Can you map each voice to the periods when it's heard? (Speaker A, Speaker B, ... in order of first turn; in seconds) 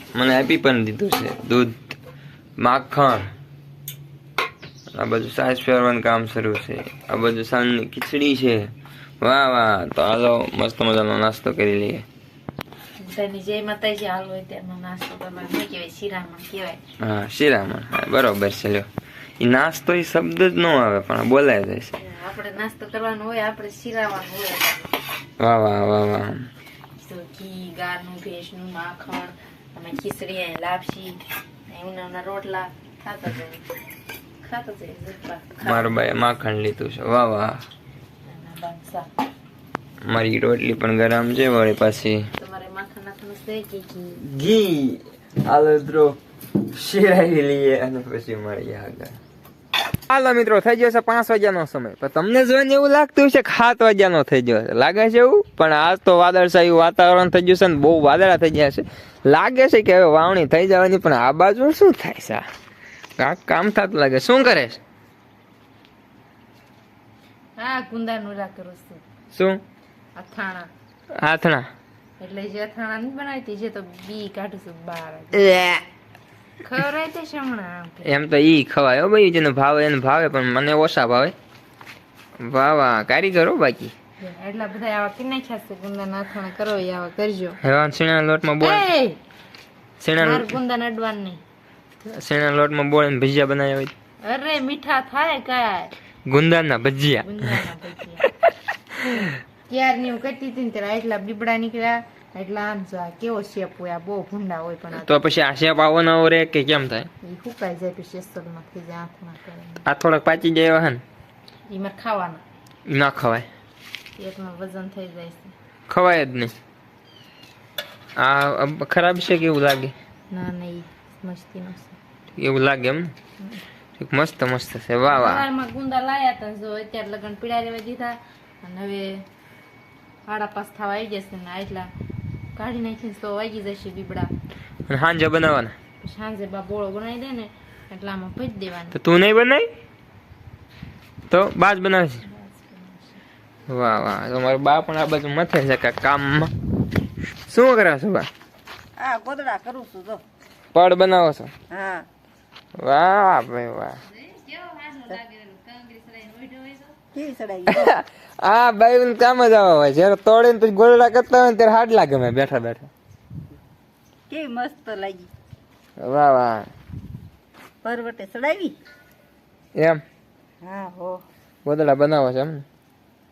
Speaker A: 0.1-1.9, 2.6-3.3, 4.9-12.0, 17.0-18.9, 19.4-21.9, 25.4-26.5, 35.6-37.6, 40.0-42.3, 44.2-49.2, 50.1-62.4, 63.2-64.8, 69.3-69.6, 71.1-71.7, 75.3-75.8, 78.0-81.3, 82.4-83.9, 87.6-88.9, 90.0-90.5, 92.0-93.9, 96.3-97.6, 99.0-99.4, 104.9-107.1, 109.8-111.0, 112.9-113.5, 115.9-116.5, 118.2-119.9, 122.4-123.1, 124.0-125.5, 134.9-135.7, 138.9-139.7, 141.3-142.2, 143.7-146.5, 147.5-148.3, 150.7-151.5, 152.8-154.0, 157.7-162.9, 166.0-166.7, 171.6-172.6
Speaker B: 13.0-16.8, 22.0-24.9, 27.0-33.6, 34.4-36.0, 38.2-39.1, 42.4-44.2, 67.6-69.0, 70.2-70.7, 72.2-75.8, 76.6-78.1, 84.2-87.6, 88.6-89.2, 90.2-91.4, 94.2-95.9, 97.2-98.2, 99.0-105.1, 107.2-109.8, 111.7-112.4, 114.2-115.5, 120.3-122.0, 125.0-129.2, 130.3-131.9, 132.5-134.3, 136.0-138.9, 142.2-143.2, 154.1-157.0
Speaker C: 149.0-150.2, 151.7-152.1, 157.1-157.9, 164.3-165.3, 167.8-168.8, 170.6-171.2